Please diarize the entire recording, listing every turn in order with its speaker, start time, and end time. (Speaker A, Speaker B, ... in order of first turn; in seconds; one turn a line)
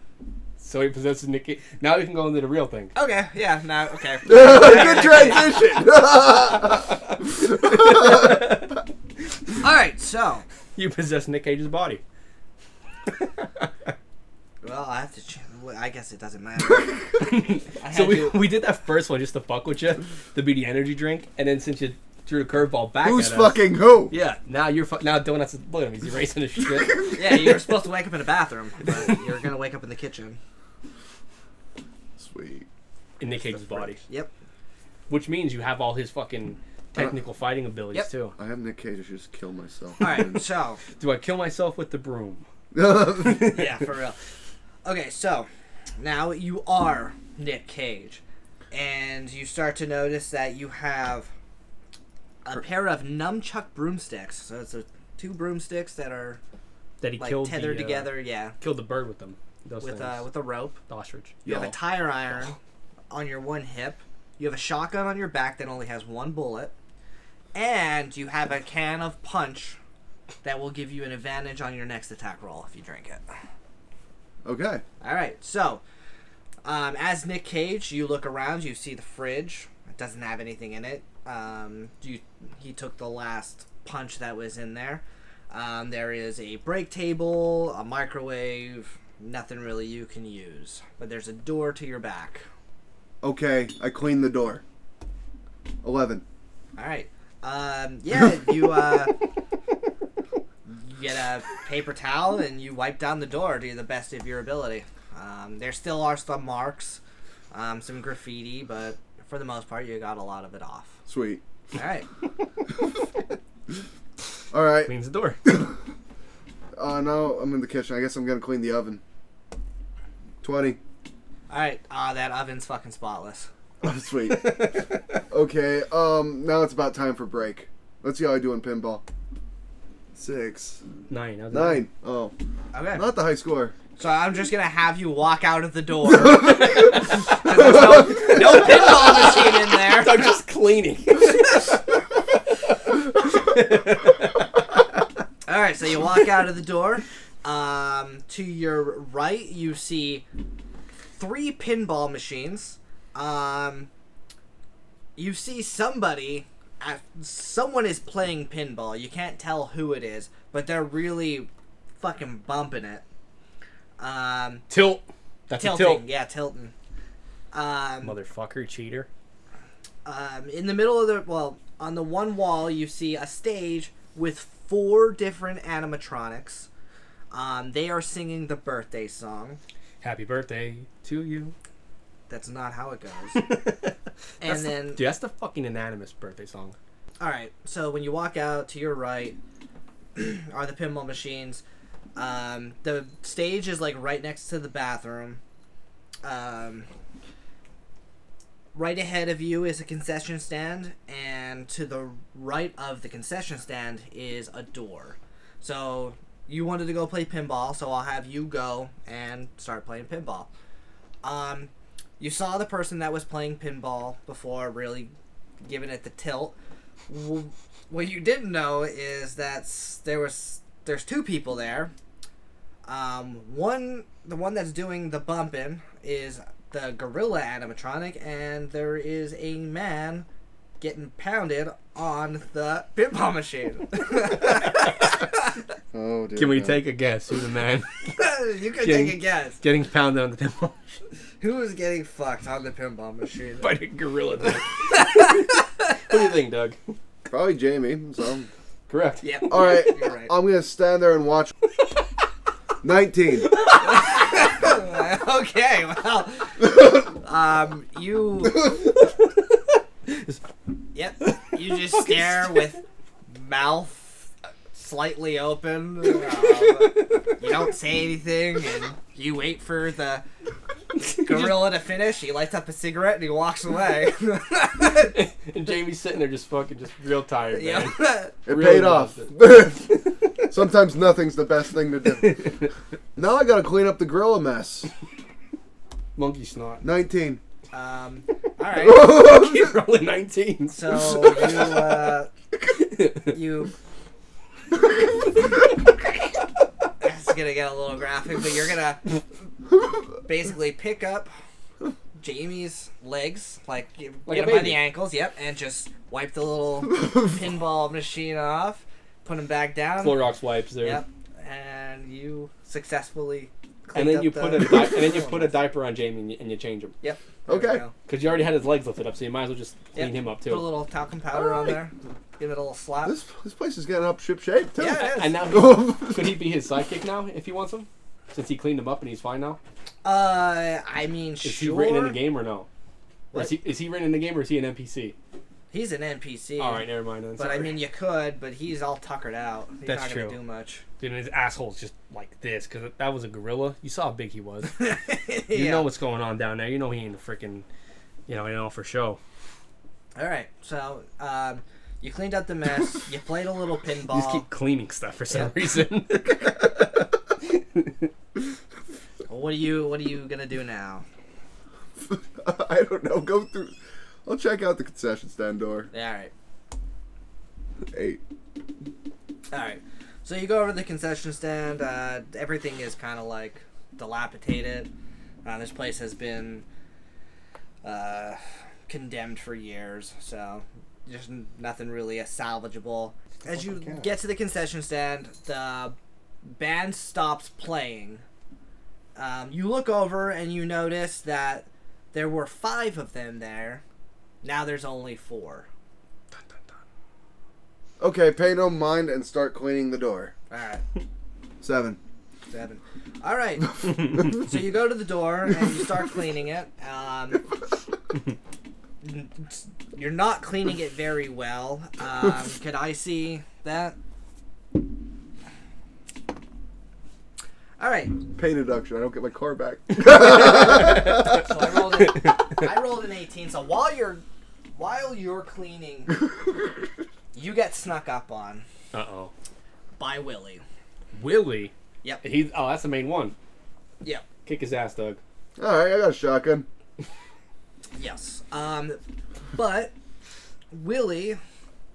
Speaker A: 0.6-2.9
Speaker B: 3.0-5.8
Speaker C: 4.3-8.5
Speaker A: 6.7-8.8
Speaker B: 9.6-10.4
Speaker A: 10.8-12.0
Speaker A: 13.2-13.9
Speaker B: 14.6-17.2
Speaker A: 17.2-27.5
Speaker B: 17.8-18.4
Speaker C: 23.0-24.1
Speaker B: 27.1-30.4
Speaker A: 28.9-29.2
Speaker C: 32.2-32.7
Speaker A: 33.2-34.0
Speaker A: 35.1-38.4
Speaker C: 38.4-40.4
Speaker B: 40.0-40.8
Speaker A: 41.0-42.5
Speaker C: 42.7-43.6
Speaker A: 43.1-43.6
Speaker B: 43.5-44.2
Speaker B: 44.8-51.3
Speaker B: 52.5-56.4
Speaker A: 57.0-60.3
Speaker B: 57.2-58.5
Speaker B: 59.8-60.8
Speaker A: 60.9-61.4
Speaker C: 61.5-61.8
Speaker B: 61.5-62.6
Speaker B: 63.1-66.7
Speaker B: 67.5-69.8
Speaker B: 70.4-73.2
Speaker C: 74.4-74.8
Speaker B: 75.0-75.8
Speaker B: 76.6-92.4
Speaker C: 93.2-94.6
Speaker C: 95.8-96.2
Speaker B: 96.8-99.1
Speaker B: 100.7-107.0
Speaker B: 107.5-111.0
Speaker C: 111.1-111.4
Speaker B: 111.8-112.1
Speaker C: 114.5-114.9
Speaker A: 114.8-115.4
Speaker C: 115.5-115.8
Speaker C: 116.8-119.0
Speaker C: 120.4-120.8
Speaker B: 121.5-123.5
Speaker C: 123.8-124.8
Speaker A: 124.3-125.0
Speaker C: 125.3-129.0
Speaker C: 130.1-130.8
Speaker A: 131.1-131.8
Speaker C: 131.5-132.3
Speaker B: 132.7-133.1
Speaker C: 132.9-133.8
Speaker B: 134.0-140.4
Speaker A: 138.2-142.0
Speaker A: 142.5-144.6
Speaker B: 145.5-150.2
Speaker B: 151.2-153.9
Speaker B: 155.2-163.0
Speaker B: 164.0-164.7
Speaker A: 164.7-166.0
Speaker B: 165.6-166.7
Speaker B: 167.5-168.1
Speaker A: 168.0-169.1
Speaker B: 170.1-176.7
Speaker B: 177.3-179.6
Speaker A: 180.0-181.5
Speaker B: 182.3-183.5
Speaker A: 183.3-186.8
Speaker B: 184.4-185.0
Speaker B: 187.2-189.4
Speaker B: 190.2-191.6
Speaker B: 192.2-195.4
Speaker B: 196.2-196.9
Speaker B: 198.7-210.5
Speaker B: 211.2-215.1
Speaker B: 215.6-216.6
Speaker B: 217.1-221.9
Speaker B: 222.8-230.3
Speaker B: 230.8-235.3
Speaker C: 235.9-236.8
Speaker A: 236.4-238.2
Speaker B: 238.1-239.6
Speaker A: 238.8-241.0
Speaker B: 241.4-243.8
Speaker A: 243.6-246.8
Speaker B: 245.0-245.4
Speaker C: 247.3-248.5
Speaker A: 248.9-249.4
Speaker B: 249.2-250.3
Speaker C: 249.5-251.5
Speaker C: 252.8-253.5
Speaker B: 253.7-258.8
Speaker A: 259.0-260.5
Speaker B: 260.9-270.2
Speaker A: 261.5-262.6
Speaker A: 271.0-271.7
Speaker B: 271.1-275.1
Speaker A: 274.8-280.4
Speaker B: 277.5-278.4
Speaker C: 278.5-282.5
Speaker A: 282.2-282.7
Speaker C: 283.2-284.9
Speaker A: 286.2-286.8
Speaker C: 286.8-287.4
Speaker B: 287.7-289.3
Speaker A: 288.9-292.0
Speaker C: 288.9-289.7
Speaker B: 290.7-292.3
Speaker A: 292.7-293.4
Speaker B: 293.3-293.7
Speaker B: 297.0-299.2
Speaker B: 300.2-301.3
Speaker B: 302.2-310.3
Speaker A: 304.3-304.8
Speaker A: 310.0-311.0
Speaker B: 310.8-315.6
Speaker A: 313.9-316.9
Speaker B: 317.0-317.9
Speaker C: 317.5-317.8
Speaker A: 318.1-320.7
Speaker B: 319.9-323.2
Speaker C: 323.0-326.4
Speaker B: 324.8-325.4
Speaker A: 324.9-329.6
Speaker B: 330.0-332.2
Speaker A: 331.4-332.7
Speaker A: 333.3-335.1
Speaker B: 335.7-340.8
Speaker A: 336.6-337.7
Speaker A: 339.9-340.4
Speaker A: 341.0-344.9
Speaker B: 344.8-345.9
Speaker A: 345.5-347.7
Speaker A: 348.3-349.2
Speaker B: 350.1-354.5
Speaker A: 354.1-358.1
Speaker B: 359.3-361.1
Speaker C: 362.0-365.9
Speaker B: 365.9-366.3
Speaker C: 367.9-368.2
Speaker B: 369.5-374.9
Speaker B: 375.4-376.6
Speaker B: 377.8-386.0
Speaker C: 383.4-384.1
Speaker B: 386.5-388.2
Speaker B: 389.2-393.8
Speaker B: 394.4-395.7
Speaker A: 396.3-396.7
Speaker C: 398.0-400.3
Speaker B: 400.5-400.8
Speaker C: 401.6-402.0
Speaker B: 402.5-407.5
Speaker B: 409.0-414.0
Speaker B: 417.8-418.1
Speaker C: 418.4-421.3
Speaker B: 420.3-424.2
Speaker A: 420.4-421.4
Speaker B: 424.8-426.1
Speaker B: 427.3-428.7
Speaker A: 428.9-429.3
Speaker B: 430.0-430.6
Speaker A: 431.1-433.4
Speaker A: 434.5-435.2
Speaker C: 435.6-436.7
Speaker B: 438.0-439.0
Speaker B: 439.5-439.9
Speaker B: 440.7-441.4